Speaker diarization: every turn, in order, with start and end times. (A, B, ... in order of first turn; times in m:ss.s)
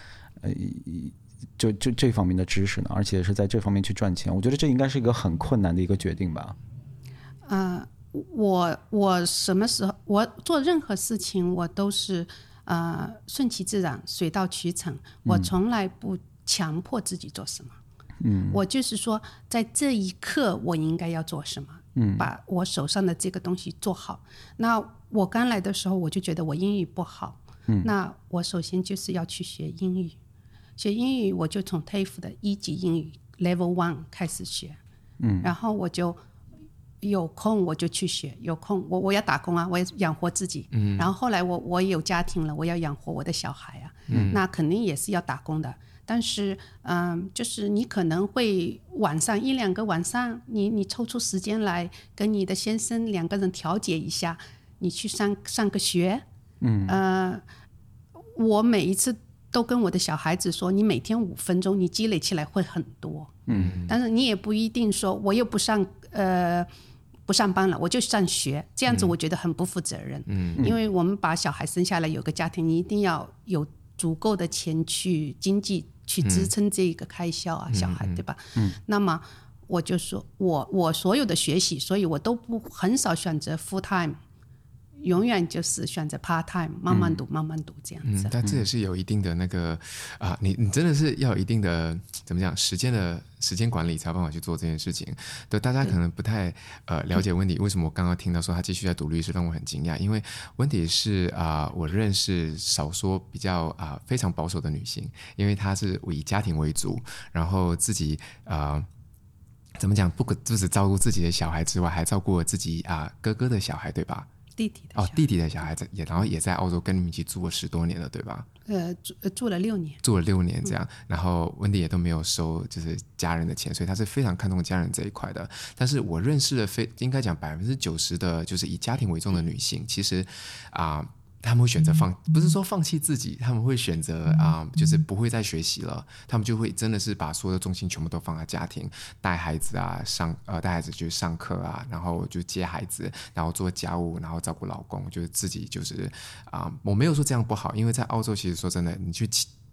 0:00.4-0:06.6 A
0:07.5-0:17.8 B
0:15.3-0:15.5 A
0:18.2-0:18.6 A
0:18.5-0:30.2 B
0:22.0-0:22.3 A
0:30.8-0:34.8 B
0:35.2-0:35.5 A
0:35.4-0:36.2 B
0:37.0-0:56.2 B
0:40.7-0:41.1 C
0:44.1-0:44.4 C
0:56.6-0:57.0 A
0:56.9-0:57.4 B
0:58.4-1:06.7 B
1:03.5-1:03.8 A
1:03.5-1:04.0 C
1:07.3-1:24.2 B
1:10.3-1:10.7 C
1:16.2-1:16.5 C
1:17.7-1:18.2 C
1:25.0-1:28.3 B
1:26.9-1:27.2 A
1:28.0-1:48.9 C
1:49.8-1:54.3 C
1:54.6-1:55.2 B
1:55.0-1:58.5 C
1:58.7-2:00.0 B
2:00.0-2:29.5 C